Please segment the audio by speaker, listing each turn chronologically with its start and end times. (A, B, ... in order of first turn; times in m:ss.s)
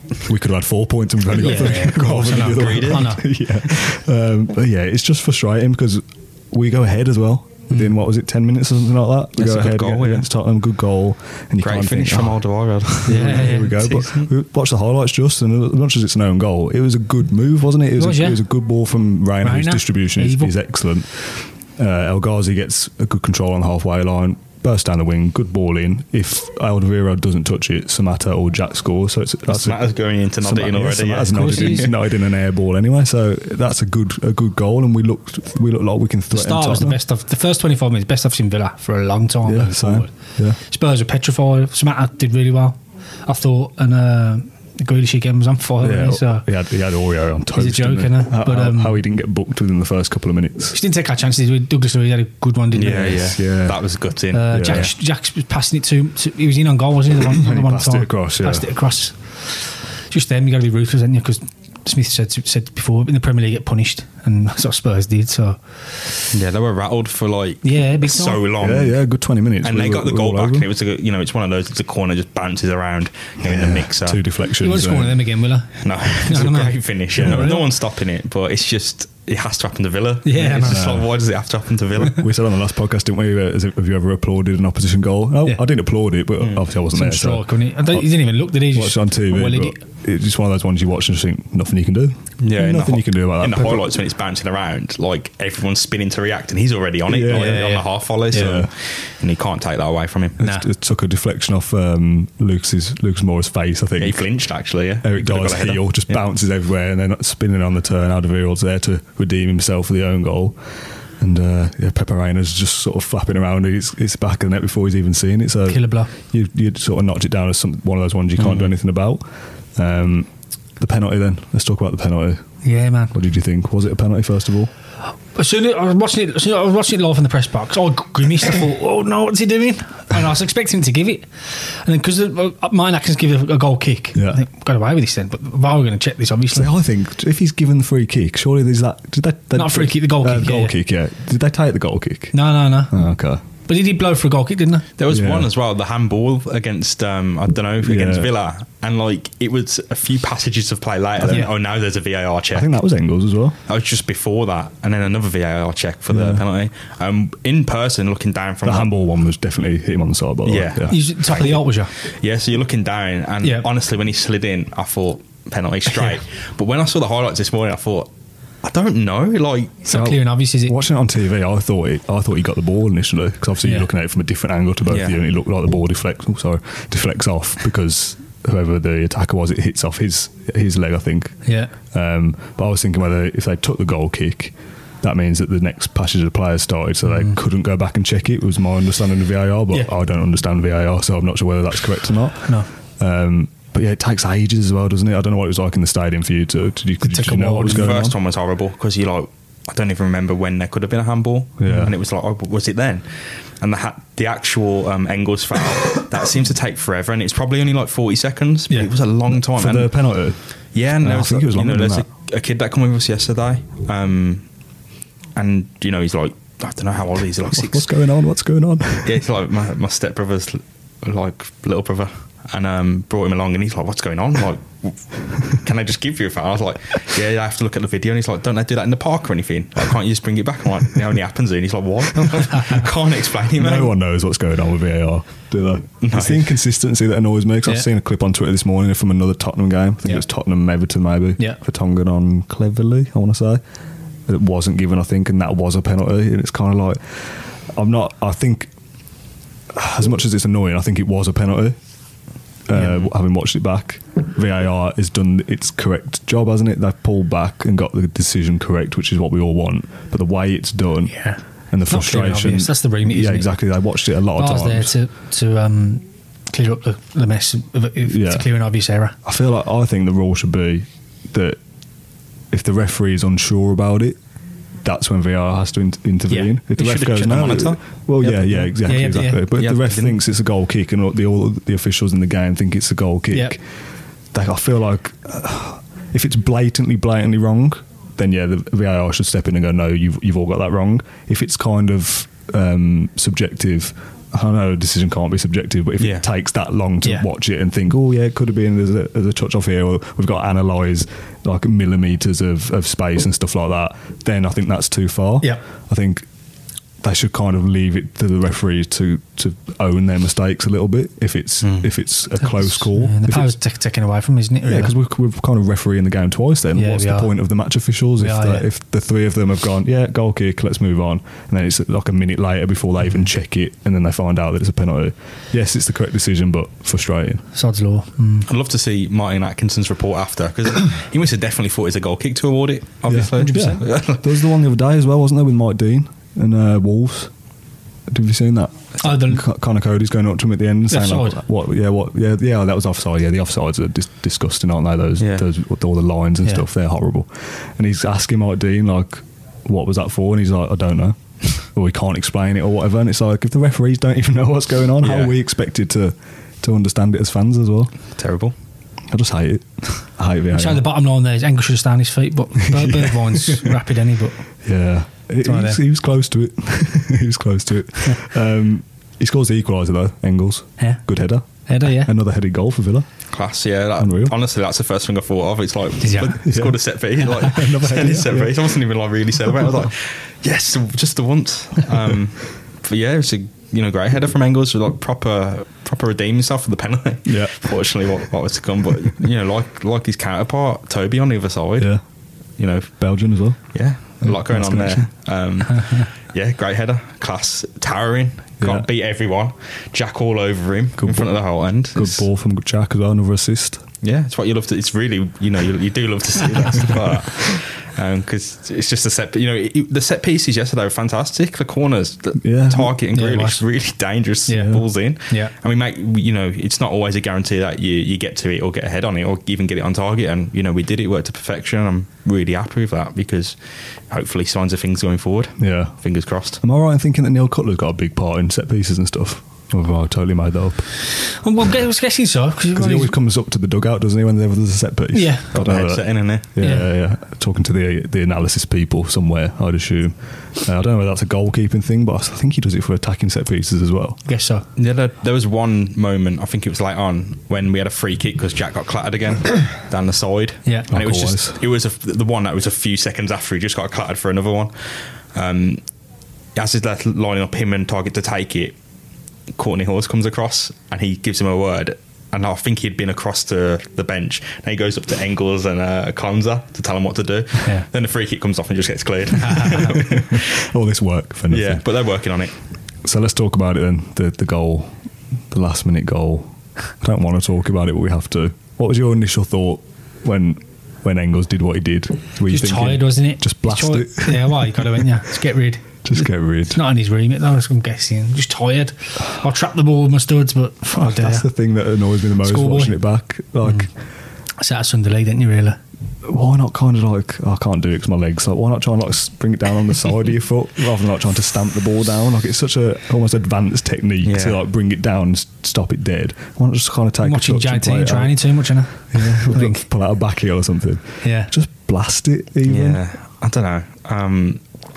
0:00.2-0:12.4 A
0:01.3-0:03.3 B
0:01.3-0:03.2 C
0:09.4-0:10.3 C
0:11.6-0:14.3 C
0:13.0-0:29.9 A
0:13.1-0:13.8 B
0:18.0-0:18.4 B
0:19.4-0:20.5 B
0:29.5-0:31.9 C
0:30.4-0:37.0 A
0:31.3-0:31.9 B
0:36.3-0:46.5 B
0:39.5-0:40.6 A
0:45.8-0:50.8 A
0:47.5-0:49.0 B
0:50.7-0:53.3 B
0:52.7-0:54.9 C
0:53.2-0:53.8 A
0:54.3-1:06.3 B
0:54.5-0:54.9 A
0:57.2-0:58.7 A
1:06.3-1:09.0 C
1:07.6-1:08.4 B
1:08.6-1:10.7 A
1:09.6-1:14.2 C
1:13.4-1:15.2 A
1:14.6-1:17.6 B
1:15.8-1:22.2 C
1:17.2-1:17.6 A
1:20.2-1:20.9 B
1:20.6-1:21.1 A
1:22.0-1:28.1 A
1:26.4-1:26.6 C
1:26.9-1:29.8 B
1:28.6-1:34.0 A
1:32.4-1:40.4 C
1:37.1-1:37.7 A
1:37.3-1:38.6 B
1:38.3-1:38.7 A
1:40.4-1:40.7 B
1:40.4-1:44.2 A
1:44.0-1:46.2 C
1:45.0-1:50.6 A
1:51.2-2:02.4 A
1:55.7-1:56.1 B
1:58.4-1:58.7 C
2:02.6-2:03.2 B
2:03.1-2:04.7 A
2:05.4-2:16.7 B
2:14.2-2:14.4 A
2:16.5-2:22.4 A
2:19.5-2:20.8 B
2:22.3-2:23.0 B
2:22.9-2:23.4 A
2:23.7-2:24.9 B
2:25.0-2:32.7 C
2:25.1-2:25.5 A
2:27.8-2:28.3 A
2:32.5-2:33.6 A
2:33.7-2:38.9 C
2:36.1-2:36.4 A
2:38.6-2:41.0 A
2:40.5-2:48.1 C
2:40.9-2:41.9 B
2:45.9-2:46.2 B
2:48.6-2:49.8 C
2:49.8-2:50.8 B
2:49.9-3:18.2 A
2:53.6-2:53.9 B
2:54.9-2:55.2 C
3:01.4-3:01.7 B
3:17.0-3:17.9 B
3:17.7-3:29.9 C
3:21.6-3:21.9 A
3:21.7-3:21.9 B
3:29.4-3:30.4 A
3:30.7-3:34.4 C
3:31.0-3:32.1 A
3:35.4-3:37.9 C
3:37.4-3:39.2 A
3:39.0-3:54.0 C
3:53.5-4:03.6 A
3:56.0-3:56.6 C
4:04.3-4:08.7 A
4:09.7-4:11.8 A
4:12.7-4:21.2 A
4:12.7-4:13.0 B
4:21.1-4:23.5 B
4:21.7-4:24.9 A
4:24.3-4:29.2 B
4:28.0-4:28.5 A
4:29.2-4:31.6 A
4:32.5-4:34.2 A
4:34.8-4:43.6 A
4:36.3-4:36.5 B
4:36.8-4:37.8 C
4:38.2-4:39.5 B
4:39.5-4:40.2 C
4:43.3-4:43.6 B
4:44.3-5:06.3 A
4:56.0-4:56.2 C
5:07.0-5:13.6 A
5:11.6-5:11.9 C
5:12.4-5:14.9 B
5:14.6-5:27.5 A
5:16.8-5:17.3 B
5:18.2-5:18.7 B
5:27.6-5:28.5 B
5:28.5-5:34.3 C
5:33.1-5:37.3 A
5:33.4-5:33.7 B
5:38.1-5:57.9 A
5:39.0-5:39.5 B
5:40.9-5:41.4 B
5:45.2-5:45.5 C
5:55.0-5:55.4 C
5:58.2-5:58.5 C
5:59.1-6:00.8 A
6:00.5-6:04.4 B
6:02.7-6:03.7 A
6:04.6-6:13.1 A
6:05.4-6:05.8 B
6:11.7-6:12.1 B
6:13.3-6:31.9 C
6:14.0-6:14.4 A
6:16.0-6:16.4 B
6:16.4-6:16.8 A
6:17.4-6:18.6 A
6:27.3-6:27.7 A
6:32.6-6:32.9 C
6:33.0-6:33.6 A
6:33.7-6:42.2 C
6:34.2-6:35.1 A
6:38.6-6:38.9 A
6:41.0-6:41.3 A
6:41.9-6:43.8 A
6:44.0-7:03.6 C
6:52.4-6:53.0 A
6:53.1-6:53.6 B
6:54.5-6:55.5 B
6:54.5-6:54.8 A
7:04.1-7:06.6 C
7:05.6-7:06.0 A
7:06.6-7:10.9 A
7:11.2-7:13.2 B
7:12.7-7:24.2 A
7:15.1-7:15.5 B
7:15.5-7:16.5 C
7:16.6-7:16.9 B
7:24.2-7:24.7 B
7:24.8-7:35.8 C
7:30.9-7:31.6 A
7:36.6-7:38.8 C
7:39.6-7:50.4 C
7:49.5-7:49.9 B
7:49.8-7:51.8 A
7:51.5-7:52.5 C
7:53.0-7:55.0 A
7:55.5-8:05.0 A
8:02.5-8:11.5 B
8:06.0-8:06.8 A
8:10.9-8:13.9 A
8:12.4-8:13.0 B
8:13.6-8:13.9 B
8:14.6-8:15.8 B
8:16.2-8:28.4 A
8:24.2-8:24.6 C
8:27.2-8:29.8 B
8:29.1-8:33.0 A
8:31.2-8:31.5 B
8:32.6-8:34.6 C